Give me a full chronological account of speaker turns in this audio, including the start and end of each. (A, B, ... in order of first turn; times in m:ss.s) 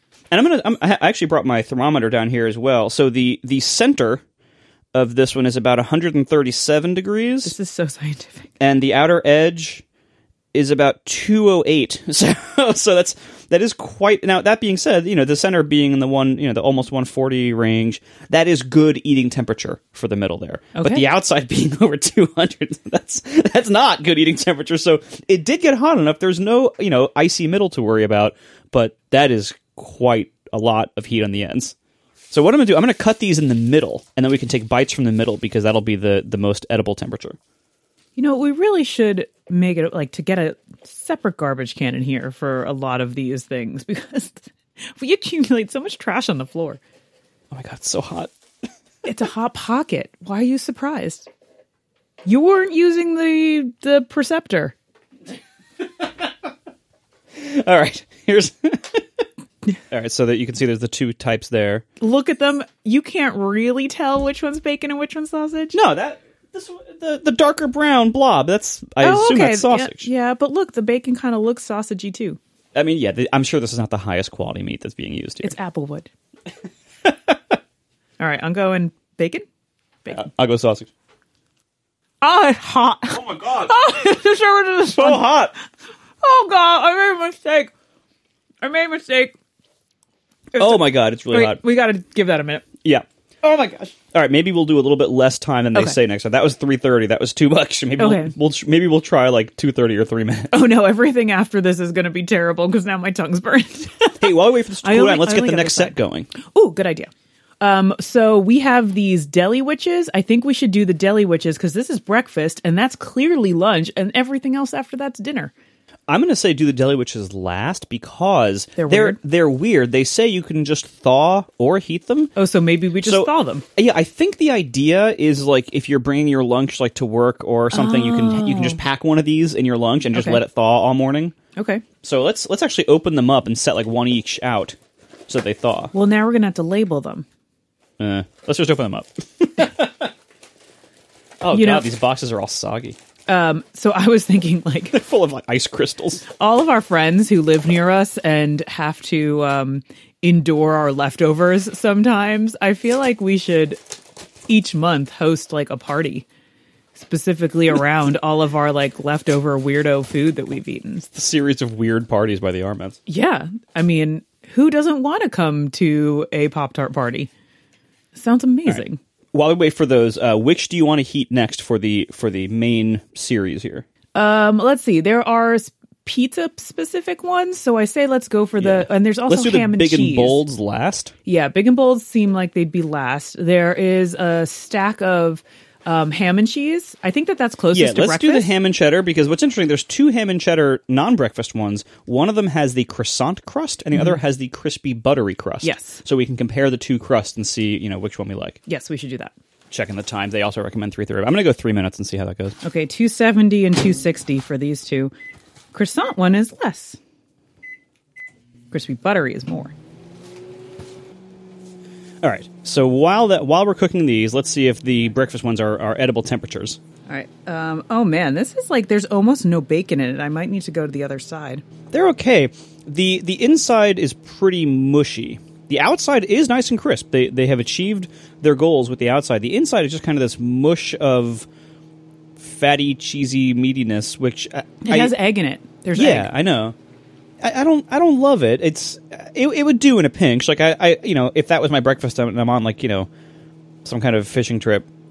0:00.3-0:04.2 A
0:04.9-0:07.6 A
0:07.4-0:08.5 B
0:08.6-0:09.8 A
0:10.5-0:31.8 A
0:20.8-0:21.0 B
0:32.3-0:37.4 A
0:38.2-0:46.8 B
0:47.5-0:48.3 A
0:49.0-0:51.3 B
0:52.2-0:54.8 B
0:56.0-0:56.5 A
0:57.3-0:59.2 A
0:59.9-1:01.8 A
1:02.0-1:05.8 B
1:05.7-1:10.1 A
1:09.0-1:12.4 B
1:12.8-1:15.6 A
1:15.4-1:16.1 B
1:17.0-1:17.6 A
1:18.2-1:19.5 B
1:20.1-1:20.9 A
1:22.2-1:25.3 B
1:23.1-1:24.0 A
1:24.9-1:25.6 A
1:26.2-1:27.7 B
1:28.6-1:29.3 B
1:30.5-1:32.7 B
1:30.6-1:31.6 A
1:32.8-1:40.6 A
1:38.0-1:38.3 B
1:40.5-1:47.1 B
1:44.2-1:46.3 A
1:47.6-1:55.5 B
1:56.1-2:02.3 A
1:58.8-1:59.2 B
2:02.4-2:03.6 B
2:03.0-2:11.4 A
2:07.7-2:08.8 B
2:10.1-2:10.4 B
2:11.6-2:11.8 B
2:12.0-2:14.8 A
2:15.3-2:15.9 A
2:15.9-2:17.3 B
2:18.0-2:20.1 A
2:21.4-2:23.0 A
2:21.5-2:21.9 B
2:23.3-2:25.0 B
2:24.9-2:26.2 A
2:26.4-2:33.8 B
2:34.5-2:36.3 B
2:37.0-2:41.1 B
2:41.2-2:43.0 A
2:43.1-2:47.3 B
2:48.2-2:49.0 B
2:49.3-2:53.9 A
2:54.1-3:00.4 B
2:58.6-3:01.1 A
3:01.3-3:08.5 B
3:07.7-3:18.6 A
3:15.6-3:16.0 B
3:18.7-3:19.3 B
3:19.7-3:22.6 A
3:22.6-3:25.1 B
3:25.7-3:27.0 B
3:28.7-3:29.7 B
3:32.2-3:36.8 A
3:37.1-3:41.6 B
3:41.9-3:51.5 A
3:52.4-3:55.1 A
3:54.8-3:56.3 B
3:56.0-3:56.8 A
3:57.4-4:03.1 A
4:03.8-4:04.9 A